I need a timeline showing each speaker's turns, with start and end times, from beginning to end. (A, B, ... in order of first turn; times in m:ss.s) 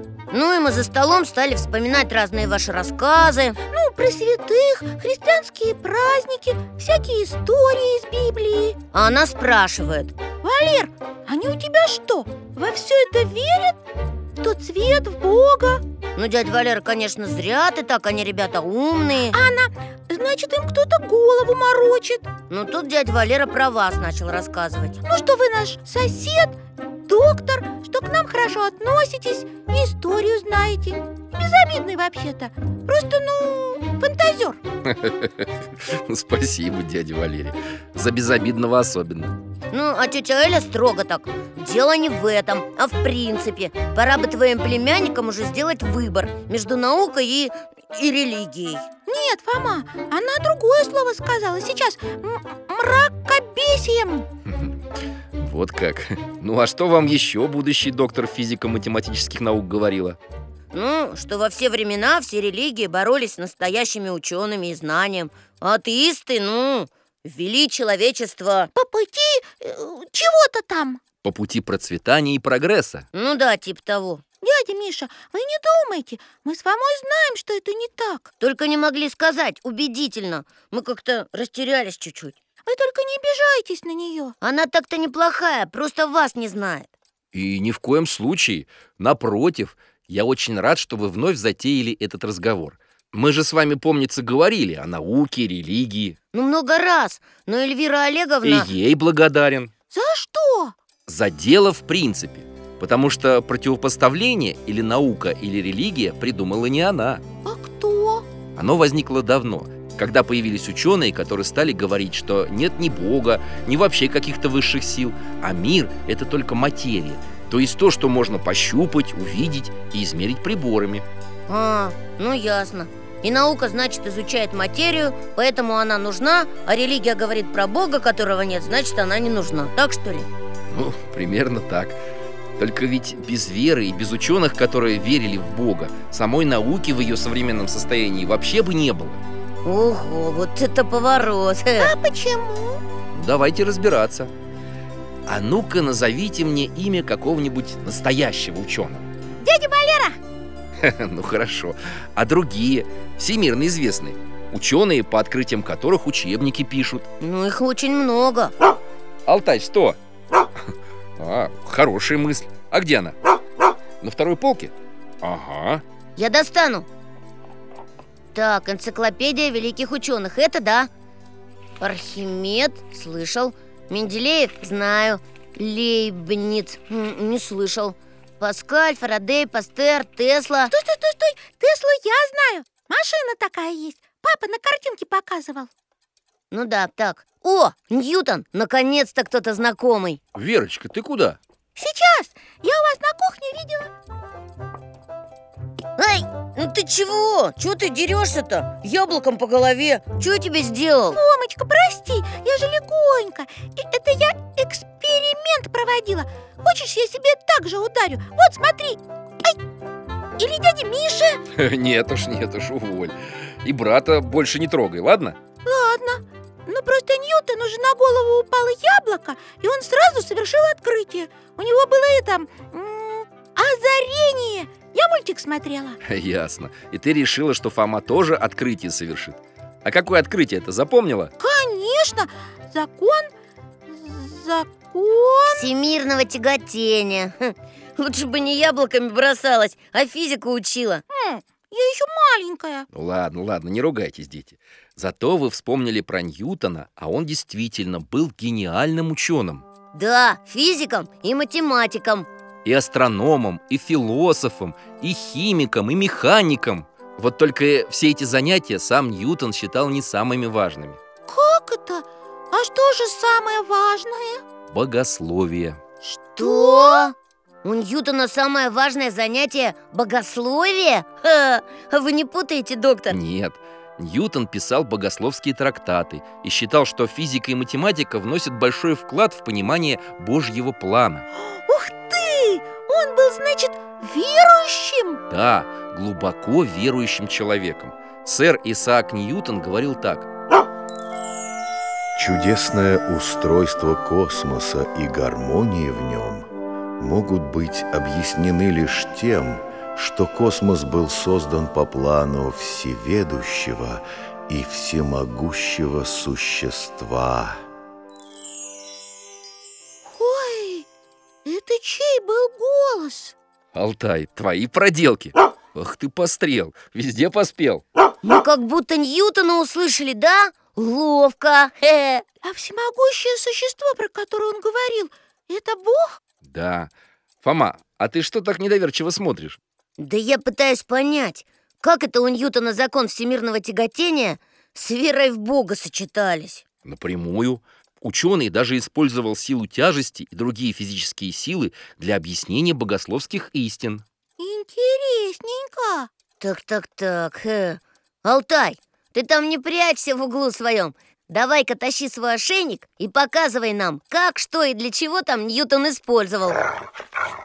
0:00.3-0:03.6 A
0:03.7-0:08.8 B
0:08.9-0:10.2 A
0:10.4-0:13.8 B
0:14.4-0:15.8 B
0:16.2-0:19.4 A
0:19.3-0:22.3 B
0:22.5-0:25.0 A
0:25.0-0:34.6 B
0:34.8-0:39.4 C
0:39.7-0:48.8 A
0:49.1-0:54.3 B
0:54.5-0:54.8 C
0:55.4-1:00.2 C
1:00.7-1:08.7 A
1:08.8-1:11.0 B
1:11.2-1:13.1 C
1:13.1-1:14.2 A
1:14.4-1:18.3 B
1:18.4-1:22.4 A
1:22.7-1:24.3 B
1:24.4-1:26.9 A
1:27.3-1:36.2 C
1:36.3-1:38.7 A
1:38.4-1:39.7 C
1:39.9-1:40.8 B
1:41.1-1:47.2 C
1:47.4-1:48.3 B
1:48.6-2:01.0 C
2:01.5-2:10.3 A
2:10.7-2:12.0 C
2:12.6-2:19.2 C
2:19.6-2:21.9 A
2:21.8-2:22.8 B
2:23.1-2:24.3 C
2:25.3-2:29.1 C
2:29.4-2:30.2 B
2:30.8-2:37.1 C
2:37.2-2:38.6 A
2:39.3-2:40.0 C
2:41.2-2:43.2 C
2:44.0-2:45.8 C
2:46.2-2:46.9 A
2:48.3-2:50.9 A
2:51.8-3:00.7 A
3:00.7-3:05.7 B
3:06.5-3:10.2 A
3:10.4-3:11.4 C
3:11.8-3:13.9 B
3:16.0-3:21.2 A
3:21.1-3:29.6 B
3:30.4-3:31.4 B
3:31.5-3:35.4 C
3:35.6-3:46.0 B
3:46.0-3:51.3 C
3:51.4-3:53.3 B
3:53.9-3:55.6 B
3:55.5-4:01.0 A
4:01.1-4:02.9 B
4:02.9-4:09.6 C
4:09.9-4:12.3 A
4:12.6-4:21.0 C
4:21.3-4:24.4 B
4:24.7-4:25.8 C
4:26.0-4:27.1 B
4:26.4-4:33.2 A
4:33.1-4:41.3 C
4:41.3-4:45.2 B
4:45.3-4:50.3 C
4:52.2-4:56.5 D
4:57.0-5:07.6 D
5:10.0-5:10.9 B
5:11.4-5:13.4 B
5:13.7-5:17.8 C
5:18.2-5:22.2 A
5:22.4-5:26.2 B
5:26.4-5:26.9 C
5:27.4-5:29.6 C
5:30.0-5:36.6 A
5:36.8-5:44.0 C
5:44.4-5:46.1 B
5:46.4-5:56.7 A